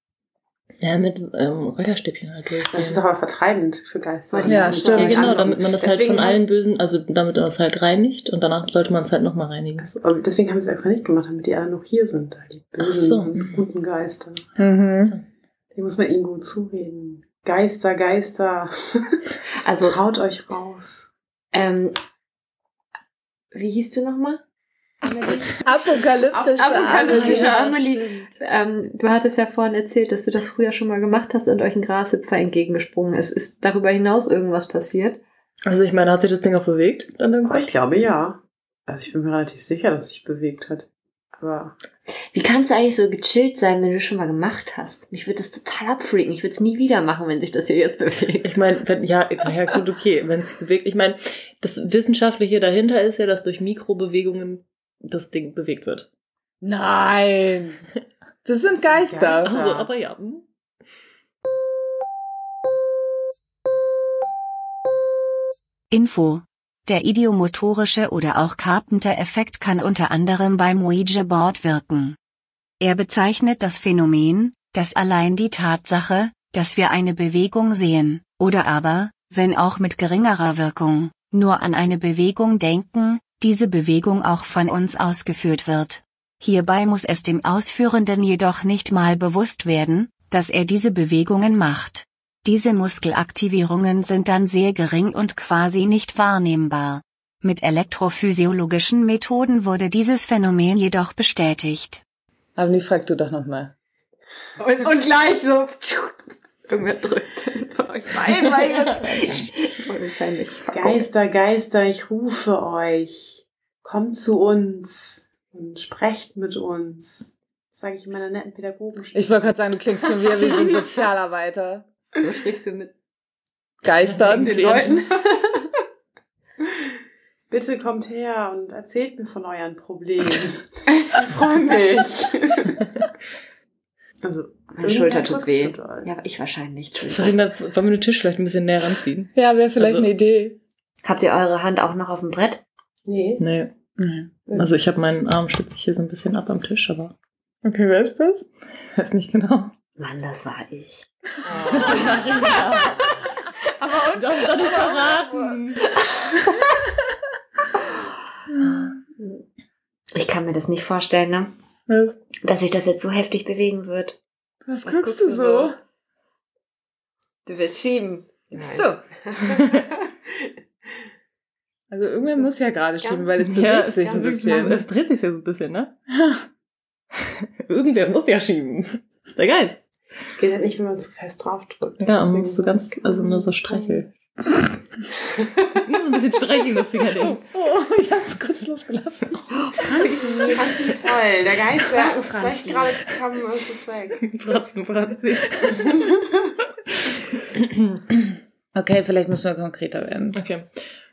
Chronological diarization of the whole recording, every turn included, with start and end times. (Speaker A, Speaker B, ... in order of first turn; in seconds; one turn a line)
Speaker A: 0.8-3.0
Speaker B: 2.7-6.4
Speaker C: 4.3-5.4
Speaker D: 4.5-5.3
Speaker A: 4.9-9.9
Speaker B: 9.8-14.5
Speaker A: 12.8-13.5
Speaker D: 14.6-15.2
Speaker B: 15.8-19.2
Speaker C: 19.6-20.0
Speaker B: 19.8-21.1
Speaker C: 21.5-22.0
Speaker C: 23.5-24.4
Speaker C: 25.0-25.6
Speaker D: 25.6-27.5
Speaker B: 26.3-27.6
Speaker C: 26.6-35.2
Speaker A: 27.1-28.3
Speaker A: 35.6-37.7
Speaker B: 37.5-41.8
Speaker C: 42.3-48.6
Speaker A: 48.4-56.1
Speaker D: 56.6-57.8
Speaker D: 58.5-59.6
Speaker B: 58.8-59.9
Speaker A: 59.4-60.4
Speaker E: 65.9-72.2
Speaker E: 72.8-102.0
Speaker D: 102.6-103.7
Speaker C: 104.6-106.2
Speaker C: 106.7-111.0
Speaker B: 110.7-119.5
Speaker D: 119.1-121.9
Speaker C: 122.2-122.9
Speaker D: 123.8-125.0
Speaker A: 124.0-125.0
Speaker B: 124.5-125.0
Speaker C: 124.5-125.0
Speaker B: 127.5-132.8
Speaker B: 134.2-136.1
Speaker C: 134.7-137.5
Speaker A: 137.1-140.1
Speaker D: 139.3-140.6
Speaker C: 141.0-142.6
Speaker B: 143.1-143.4
Speaker A: 143.4-143.7
Speaker D: 144.0-144.3
Speaker A: 144.5-147.2
Speaker D: 147.6-148.5
Speaker A: 148.9-149.7
Speaker C: 150.0-151.1
Speaker B: 151.4-152.4
Speaker A: 151.7-153.1
Speaker A: 154.1-155.9
Speaker D: 154.8-155.5
Speaker D: 158.5-159.0
Speaker A: 158.7-158.9
Speaker C: 160.1-161.5
Speaker D: 161.9-162.2
Speaker C: 162.4-164.2
Speaker D: 164.7-165.8
Speaker C: 164.8-165.8
Speaker C: 167.5-169.1
Speaker B: 168.5-169.9
Speaker D: 171.9-174.9
Speaker C: 173.0-173.3
Speaker A: 173.4-175.9
Speaker B: 174.3-174.8
Speaker A: 177.2-179.8
Speaker B: 180.3-183.9
Speaker A: 182.0-184.1
Speaker A: 185.7-187.4
Speaker D: 187.2-189.5
Speaker C: 189.5-190.7
Speaker B: 189.9-194.3
Speaker C: 191.9-192.9
Speaker A: 194.3-196.0
Speaker B: 195.9-196.3
Speaker A: 197.5-198.0
Speaker D: 198.8-200.4
Speaker A: 200.3-200.7